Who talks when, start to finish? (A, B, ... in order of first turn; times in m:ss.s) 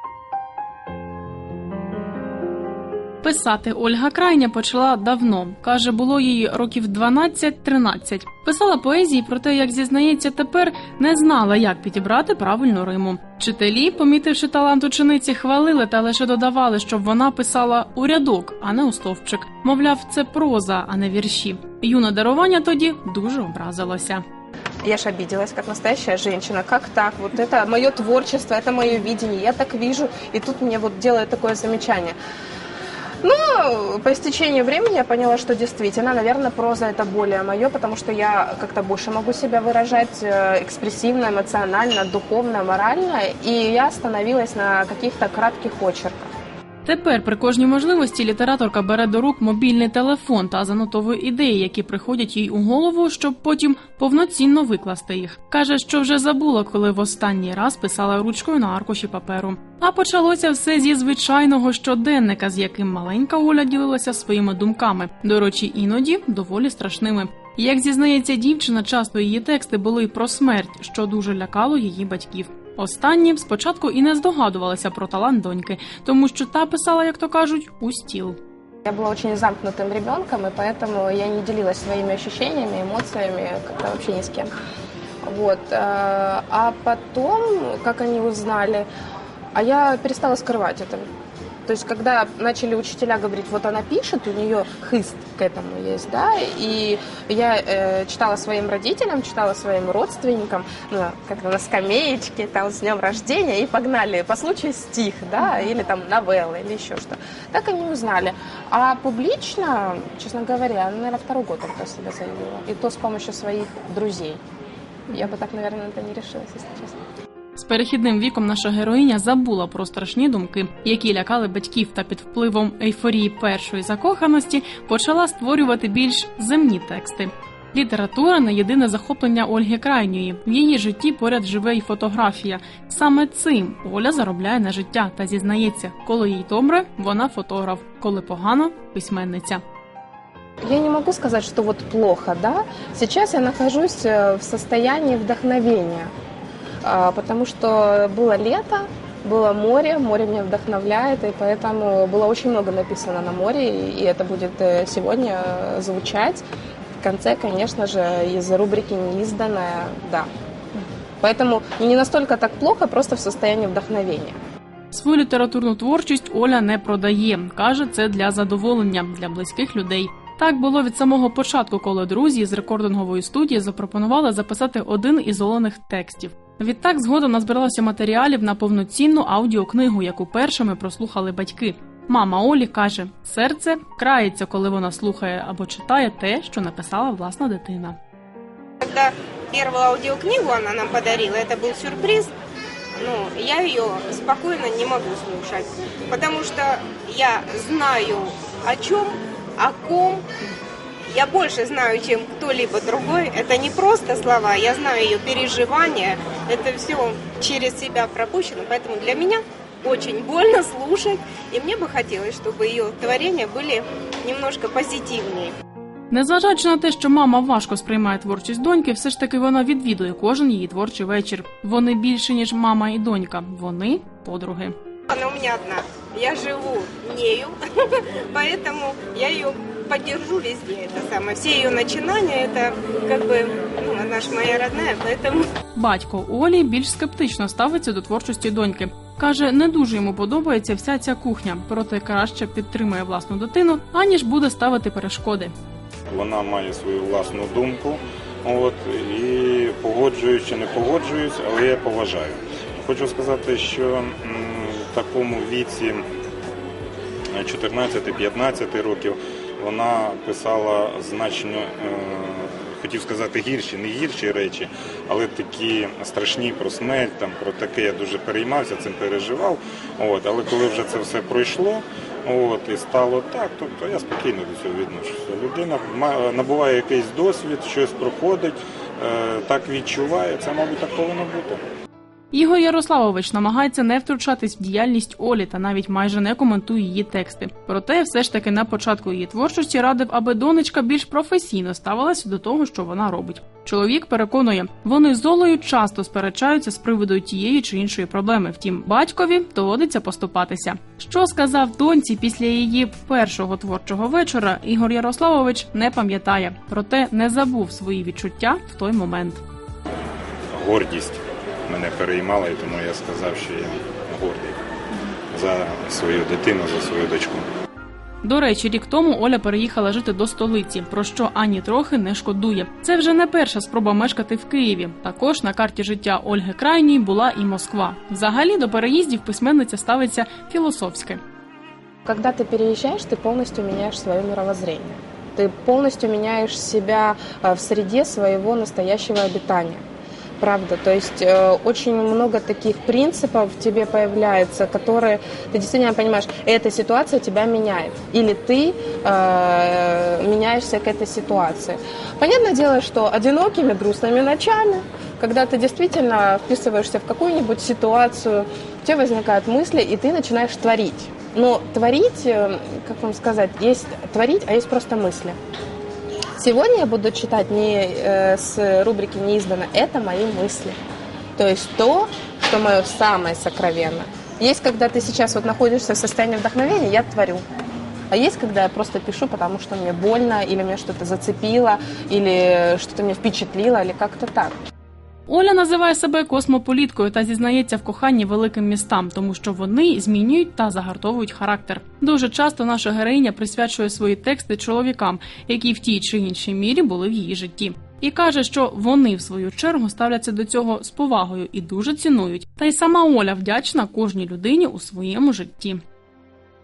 0:03.2-0:24.2 A
0:24.8-0:32.2 B
0:33.2-0:46.3 B
0:46.8-1:18.4 A
1:18.9-1:24.5 B
1:25.2-1:28.9 B
1:29.6-1:31.1 B
1:31.7-1:54.4 B
1:55.1-1:57.0 B
1:57.6-2:19.6 A
2:20.6-2:26.1 B
2:26.8-2:36.4 B
2:37.0-2:40.3 B
2:41.2-2:44.4 B
2:44.9-3:08.0 A
3:08.8-3:12.3 C
3:13.0-3:20.2 C
3:21.1-3:35.6 C
3:36.1-3:44.7 A
3:45.1-3:55.5 C
3:55.8-4:05.5 A
4:06.1-4:16.0 D
4:17.4-4:41.6 D
4:42.3-5:09.4 A
5:10.5-5:14.6 D
5:15.3-5:17.5 D
5:18.2-5:31.2 A
5:32.1-5:39.8 B
5:40.4-6:05.4 B
6:06.4-6:10.8 B
6:11.4-6:17.4 B
6:18.1-6:24.6 B
6:25.3-6:45.8 A